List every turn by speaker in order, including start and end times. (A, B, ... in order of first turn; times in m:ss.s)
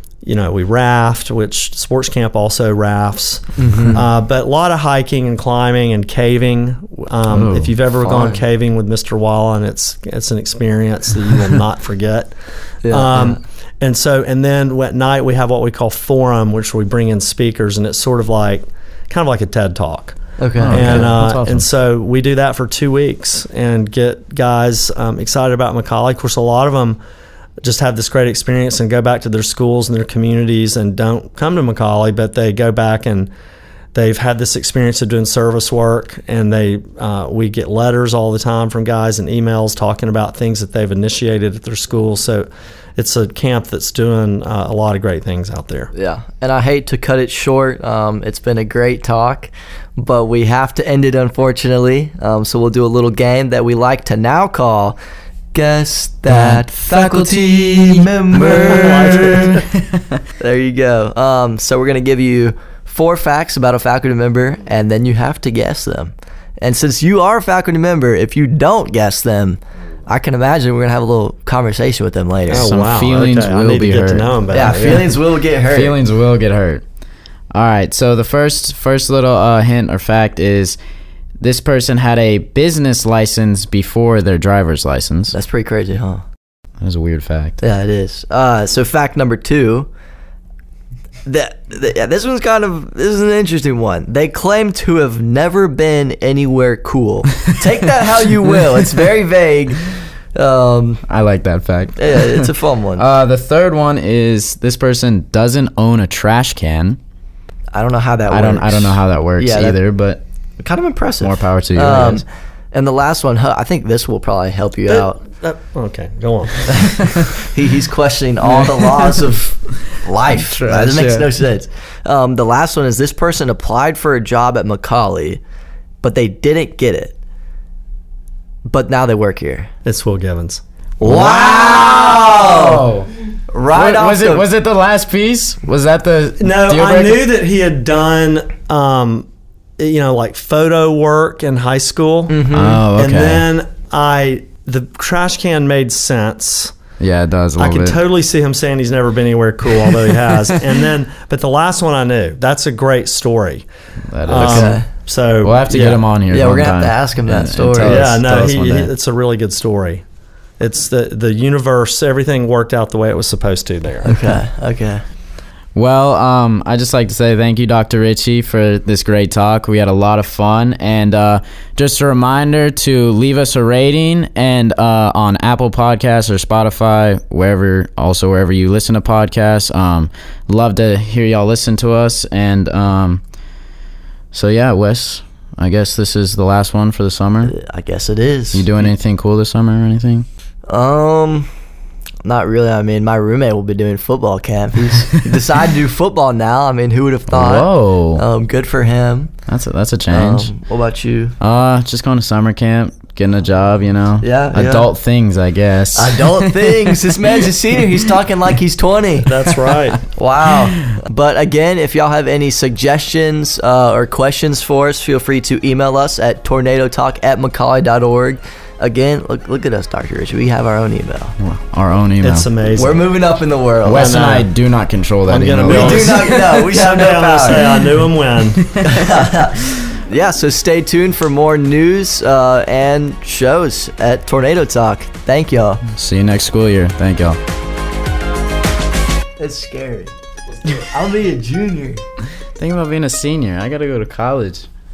0:00.2-0:12.3 A
0:03.6-0:04.0 B
0:07.3-0:07.7 C
0:08.0-0:08.4 B
0:12.8-0:13.4 B
0:12.9-0:27.0 A
0:20.4-0:21.1 B
0:20.6-0:21.7 C
0:27.6-0:33.3 A
0:33.9-0:45.9 A
0:45.9-0:55.0 B
0:55.5-0:59.6 B
0:56.3-0:56.6 C
0:58.3-0:59.7 A
1:00.4-1:12.7 B
1:12.5-1:15.1 A
1:12.5-1:15.1 C
1:14.5-1:16.0 B
1:15.6-1:16.8 C
1:17.5-1:20.8 C
1:21.4-1:25.3 C
1:25.3-1:26.2 B
1:26.8-1:27.6 C
1:27.6-1:29.9 B
1:31.2-1:41.0 B
1:41.1-1:47.0 C
1:42.0-1:43.0 B
1:47.7-1:49.8 B
1:48.3-1:50.2 C
1:50.6-1:55.2 B
1:51.2-1:52.2 C
1:54.9-1:57.0 A
1:57.4-2:05.4 B
1:58.5-1:59.1 C
2:00.3-2:01.3 C
2:06.0-2:07.2 B
2:08.7-2:09.7 B
2:09.8-2:10.6 A
2:11.0-2:12.9 B
2:11.0-2:13.1 C
2:13.5-2:14.5 B
2:13.7-2:17.3 C
2:16.4-2:26.7 A
2:22.3-2:22.8 B
2:22.5-2:23.4 C
2:27.0-2:28.0 C
2:27.6-2:33.7 A
2:34.1-2:34.8 C
2:34.2-2:36.0 A
2:34.3-2:34.8 B
2:35.4-2:38.9 C
2:36.3-2:38.0 B
2:37.8-2:40.0 A
2:40.6-2:44.2 A
2:44.0-2:45.0 B
2:45.7-3:03.2 C
3:04.3-3:07.5 C
3:07.4-3:08.9 B
3:08.5-3:10.2 C
3:10.7-3:11.5 B
3:12.2-3:19.3 B
3:17.3-3:18.2 C
3:19.5-3:20.5 C
3:20.1-3:21.3 B
3:21.4-3:27.2 C
3:24.2-3:24.8 B
3:24.6-3:24.9 A
3:25.9-3:29.3 B
3:29.2-3:30.0 A
3:30.2-3:41.3 B
3:41.4-3:42.5 C
3:42.2-3:43.1 A
3:42.7-3:44.1 B
3:43.8-3:46.6 C
3:43.9-3:44.5 A
3:45.2-3:48.6 A
3:45.7-3:47.8 B
3:48.6-3:49.0 C
3:48.8-3:55.8 B
3:55.9-3:57.4 C
3:59.4-4:02.0 B
4:02.6-4:04.7 C